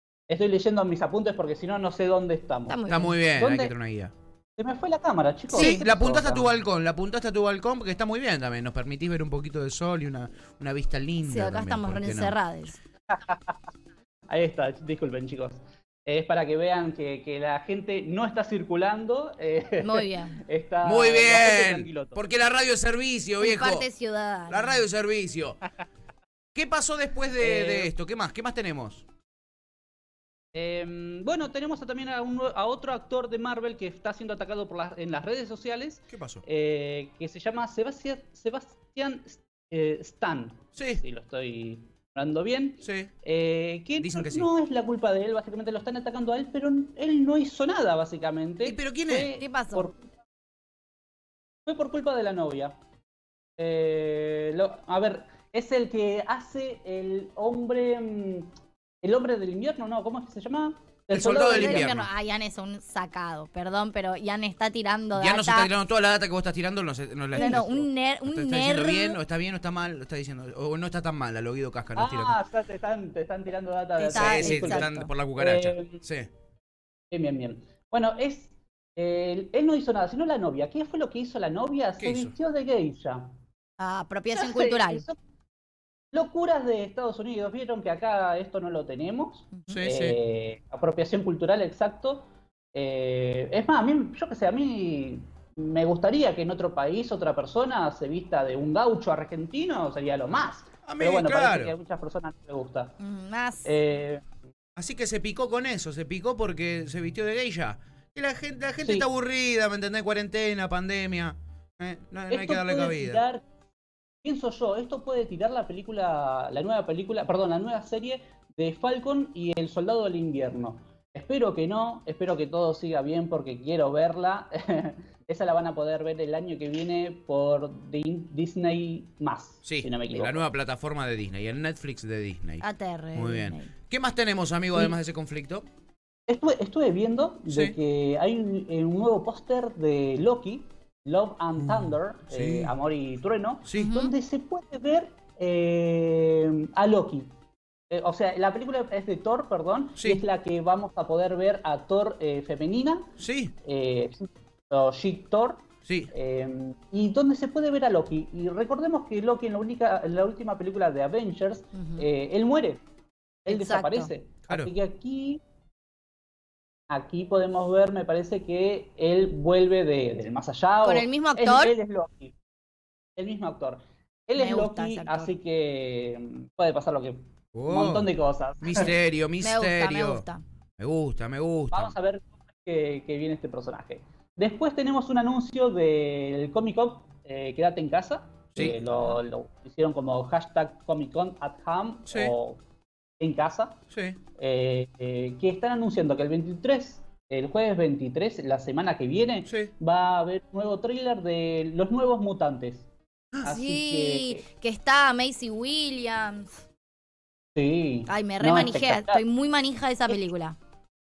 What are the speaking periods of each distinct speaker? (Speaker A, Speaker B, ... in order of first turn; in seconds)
Speaker A: 0.3-2.8, 3.4-3.7, 4.6-6.5, 13.1-13.6, 14.3-22.2, 27.4-27.9, 30.5-50.1, 51.6-52.7, 53.6-61.9, 67.4-67.9, 71.9-76.0, 77.1-83.3, 84.3-85.2, 86.1-102.9, 103.6-104.2, 108.8-109.1, 112.3-113.4, 114.2-130.5, 136.3-147.3, 147.9-153.1, 153.6-162.8, 163.4-165.4, 166.9-172.3, 173.2-178.9, 181.7-192.6, 193.2-193.8, 194.4-202.9, 203.4-204.4, 207.6-209.2
Speaker B: 2.7-3.2, 5.5-5.8, 11.2-12.8, 19.8-20.4, 23.4-24.8, 49.3-49.9, 61.4-65.7, 67.3-69.2, 74.0-75.1, 83.8-85.0, 89.5-89.8, 103.0-103.7, 132.6-133.7, 143.7-144.1, 161.7-162.1, 163.5-164.1, 170.8-171.7, 174.4-175.3, 179.4-180.4, 203.4-206.5, 208.1-210.6
Speaker C: 2.9-4.1, 5.5-12.3, 20.8-23.9, 24.5-25.6, 26.5-29.0, 36.1-36.4, 40.8-41.0, 42.8-43.1, 44.0-44.5, 48.6-49.3, 61.1-62.1, 65.1-67.7, 68.2-72.4, 74.1-76.3, 82.0-82.3, 89.7-90.2, 100.8-101.7, 104.8-113.2, 129.6-135.7, 137.5-137.8, 141.6-142.7, 143.7-143.9, 153.2-153.5, 155.8-156.1, 177.5-180.2, 180.8-181.9, 192.1-192.3, 193.9-194.2, 199.4-199.7